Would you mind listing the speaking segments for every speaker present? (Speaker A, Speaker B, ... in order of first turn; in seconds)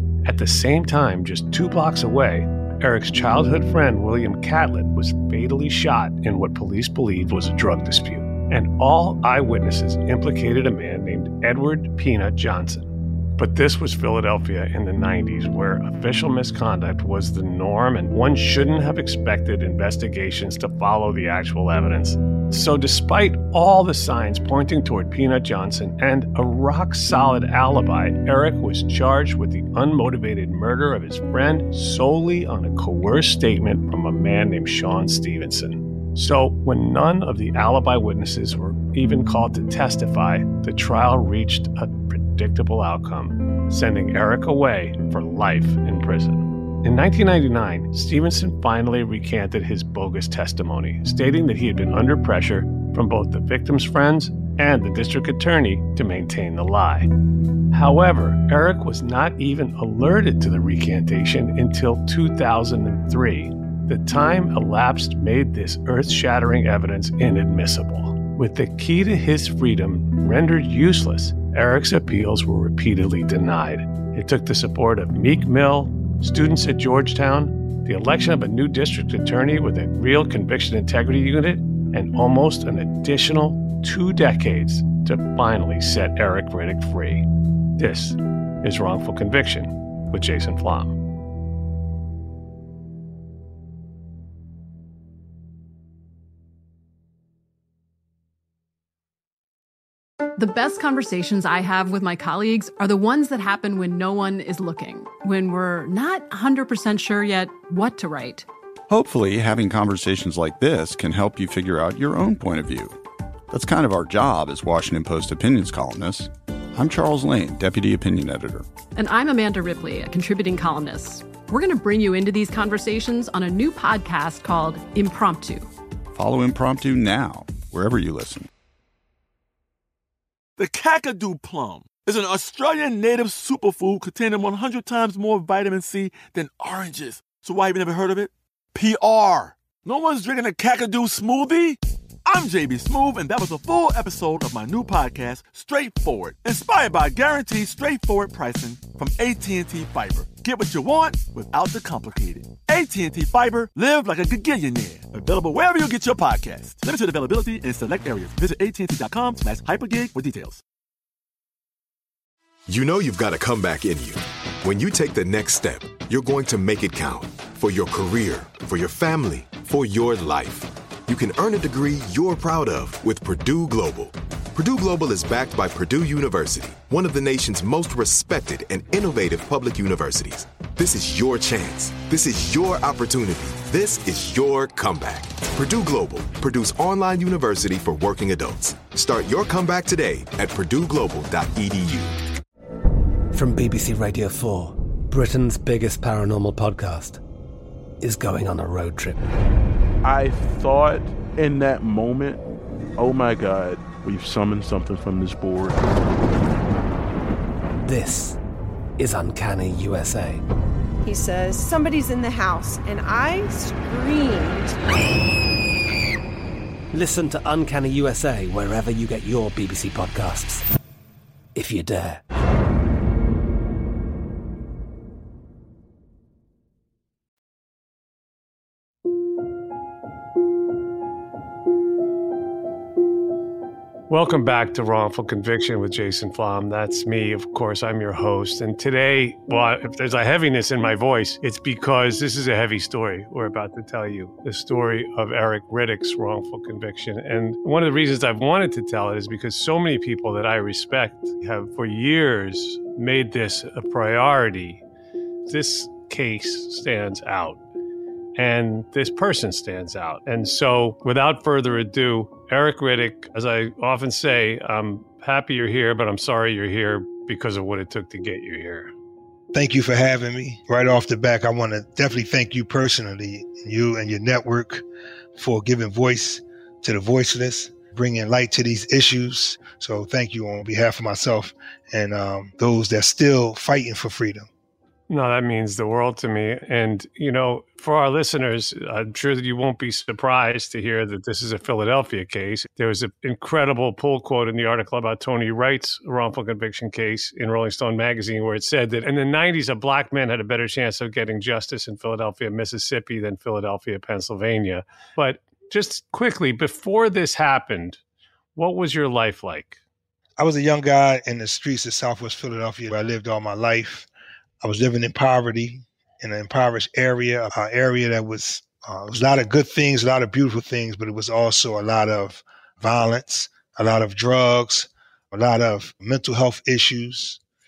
Speaker A: 0.2-57.1, 57.7-87.2, 87.8-91.0, 234.1-254.8, 255.5-257.6, 258.4-268.9, 285.1-308.0, 308.6-309.8
Speaker B: 100.4-108.5, 119.0-125.7
Speaker C: 108.9-113.0, 113.5-118.7, 126.1-128.5
Speaker D: 130.6-160.6
Speaker E: 162.7-192.2
Speaker F: 193.3-197.2, 198.0-199.2, 207.8-208.4, 209.0-210.4, 216.9-220.6, 221.5-222.2
Speaker G: 200.0-202.4, 203.0-205.8
Speaker H: 211.0-214.8
Speaker I: 269.5-274.8, 275.4-284.5, 310.4-314.1, 314.6-327.4